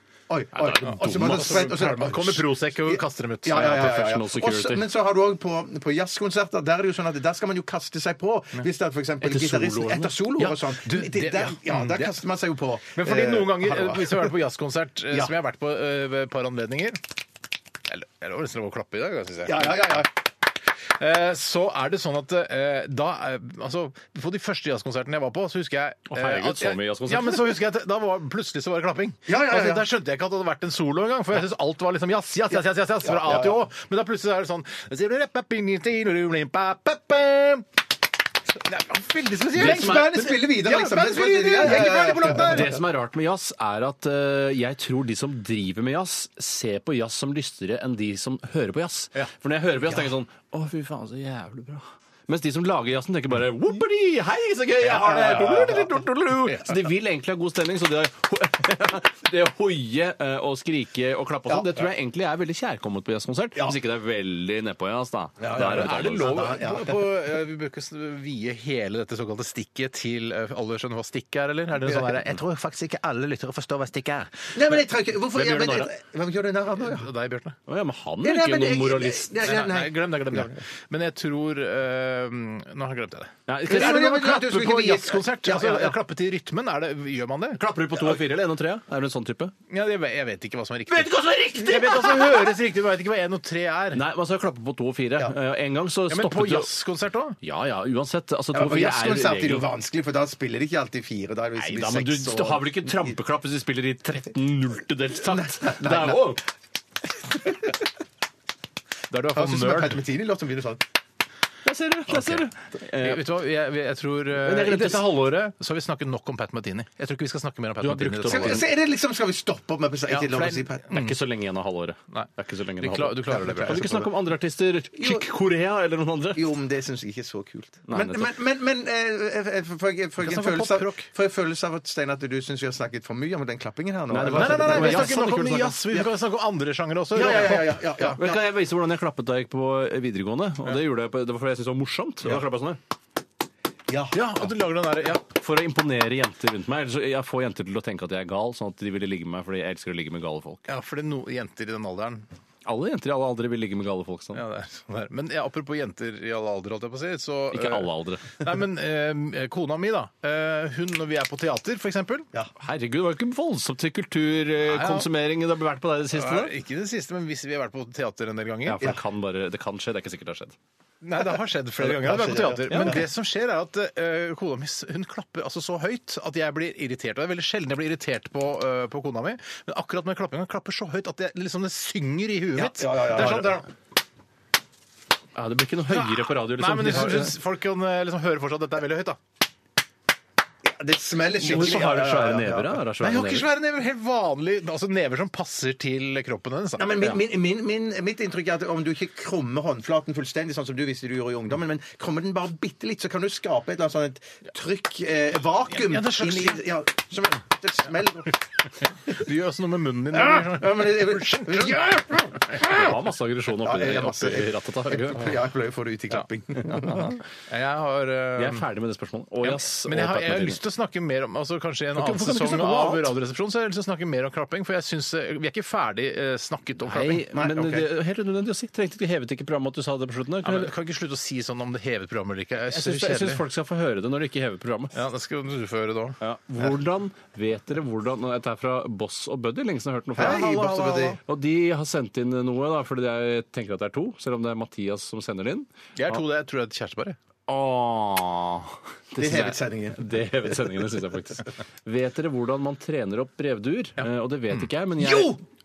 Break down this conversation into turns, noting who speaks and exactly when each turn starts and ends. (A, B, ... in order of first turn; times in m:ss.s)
0:00.3-0:14.3 A
0:00.6-0:01.7 B
0:00.8-0:04.1 C
0:03.5-0:04.9 B
0:09.2-0:10.2 B
0:10.4-0:12.1 C
0:13.0-0:17.0 C
0:17.9-0:20.1 C
0:19.4-0:20.1 A
0:21.0-0:37.7 C
0:26.1-0:27.6 B
0:29.3-0:29.9 A
0:33.0-0:33.6 A
0:38.6-0:42.8 C
0:39.5-0:42.8 A
0:39.6-0:40.2 B
0:41.7-1:06.6 B
0:54.9-0:55.9 A
0:55.1-0:55.5 C
1:01.5-1:01.8 A
1:05.4-1:07.1 A
1:05.5-1:14.5 C
1:14.5-1:17.1 A
1:15.3-1:15.9 B
1:16.8-1:17.6 C
1:17.7-1:19.4 B
1:18.2-1:20.6 A
1:19.4-1:27.6 C
1:23.5-1:24.0 B
1:23.7-1:26.0 A
1:27.6-1:29.5 B
1:29.7-1:34.0 C
1:30.9-1:32.5 B
1:33.9-1:36.7 B
1:36.1-1:37.4 C
1:37.4-1:39.7 B
1:38.5-1:43.1 A
1:41.6-1:46.4 B
1:45.1-1:46.4 A
1:49.1-1:50.0 C
1:49.3-1:50.8 A
1:51.6-1:53.2 B
1:52.1-1:52.4 C
1:53.0-1:58.6 C
1:54.4-1:55.2 B
1:57.8-1:58.6 B
1:58.3-2:00.9 A
2:00.1-2:01.2 C
2:00.9-2:06.4 B
2:02.1-2:04.1 C
2:03.3-2:04.0 A
2:04.9-2:05.3 A
2:06.3-2:15.4 A
2:07.9-2:08.3 B
2:10.2-2:11.1 C
2:14.1-2:15.8 B
2:14.3-2:18.2 C
2:17.1-2:18.4 A
2:18.2-2:22.8 B
2:23.9-2:24.2 A
2:24.1-2:25.2 C
2:25.1-2:30.6 B
2:30.7-2:32.3 C
2:32.6-2:34.4 B
2:34.3-2:42.3 C
2:37.5-2:38.3 B
2:42.6-2:46.5 B
2:44.7-2:45.1 C
2:46.1-2:48.8 C
2:48.6-2:50.6 B
2:51.0-3:03.7 C
2:51.8-2:53.0 A
2:52.7-2:53.0 B
3:02.5-3:03.6 A
3:05.4-3:07.3 B
3:05.9-3:09.2 C
3:10.6-3:12.8 A
3:11.4-3:13.5 B
3:13.0-3:17.2 C
3:16.8-3:28.4 A
3:25.7-3:26.6 C
3:29.1-3:32.9 C
3:30.1-3:32.4 A
3:32.6-3:35.3 B
3:33.6-3:37.1 A
3:36.7-3:37.1 B
3:37.5-3:38.6 C
3:38.4-3:40.6 B
3:39.4-3:47.2 C
3:42.0-3:43.1 B
3:46.8-3:50.7 B
3:47.3-3:47.9 A
3:50.4-3:53.4 C
3:52.7-3:55.0 B
3:54.9-3:56.2 C
3:56.2-4:06.2 B
4:00.1-4:01.2 A
4:00.2-4:01.0 C
4:06.0-4:07.2 C
4:07.5-4:15.3 B
4:09.2-4:10.0 A
4:14.0-4:14.7 C
4:15.0-4:15.3 A